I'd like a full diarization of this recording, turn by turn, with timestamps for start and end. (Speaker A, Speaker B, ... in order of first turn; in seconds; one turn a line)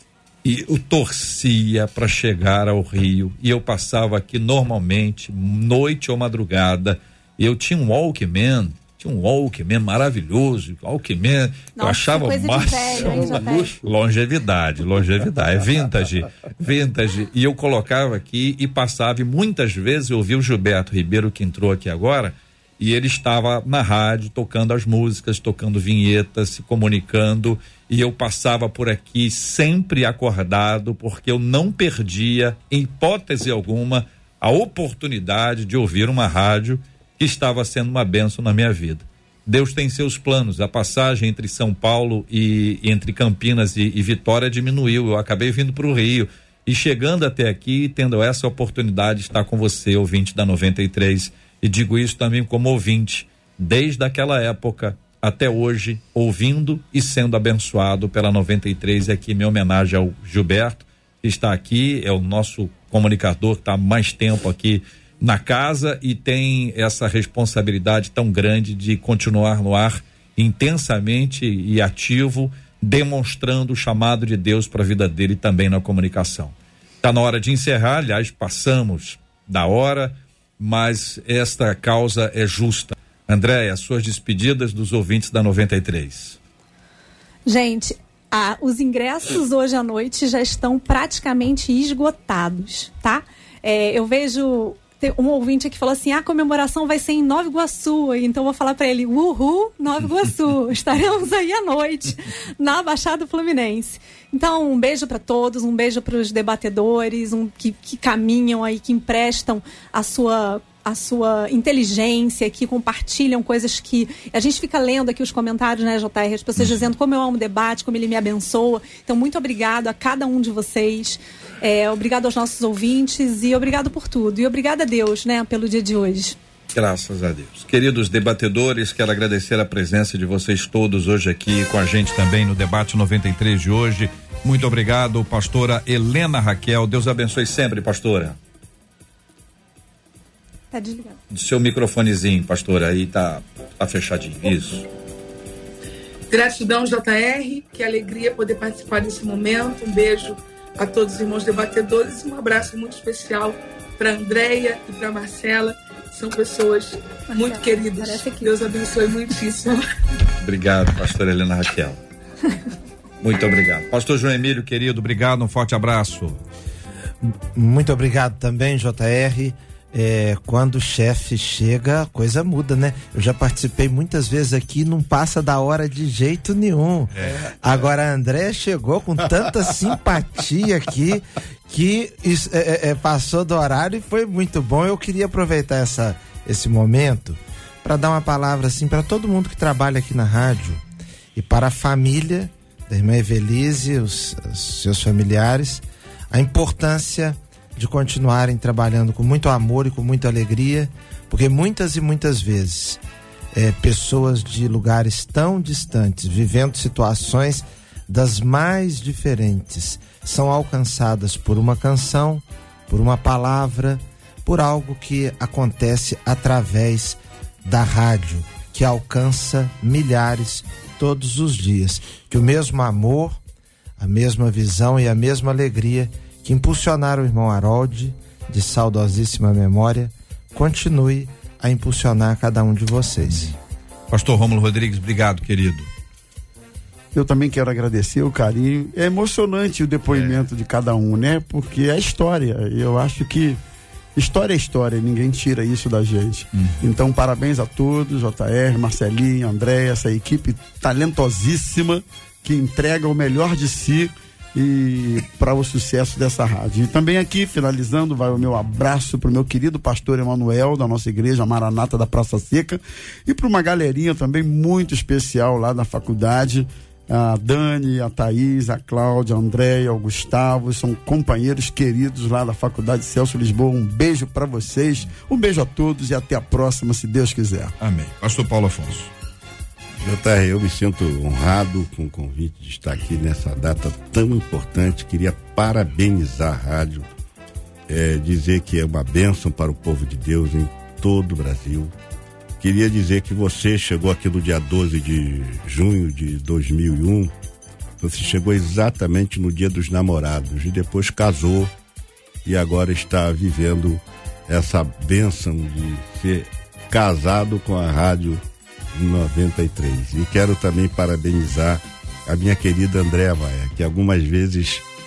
Speaker A: 0.4-86.4
Speaker B: 11.8-13.7
Speaker C: 13.2-13.6
Speaker B: 87.5-126.4
Speaker A: 126.7-138.4
Speaker B: 140.7-141.2
Speaker A: 141.3-144.9
Speaker D: 146.3-159.8
Speaker B: 157.3-158.5
Speaker A: 160.4-162.0
Speaker A: 163.2-166.4
Speaker E: 167.2-190.8
Speaker E: 191.3-203.0
Speaker E: 203.5-223.4
Speaker E: 224.0-233.5
Speaker A: 233.3-233.5
Speaker A: 234.1-235.9
Speaker C: 237.1-243.6
Speaker A: 240.1-240.5
Speaker C: 244.2-277.7
Speaker A: 277.8-279.1
Speaker F: 280.0-287.0
Speaker F: 287.9-291.9
Speaker F: 292.6-297.3
Speaker F: 298.0-301.7
Speaker F: 302.4-308.4
Speaker F: 309.0-314.8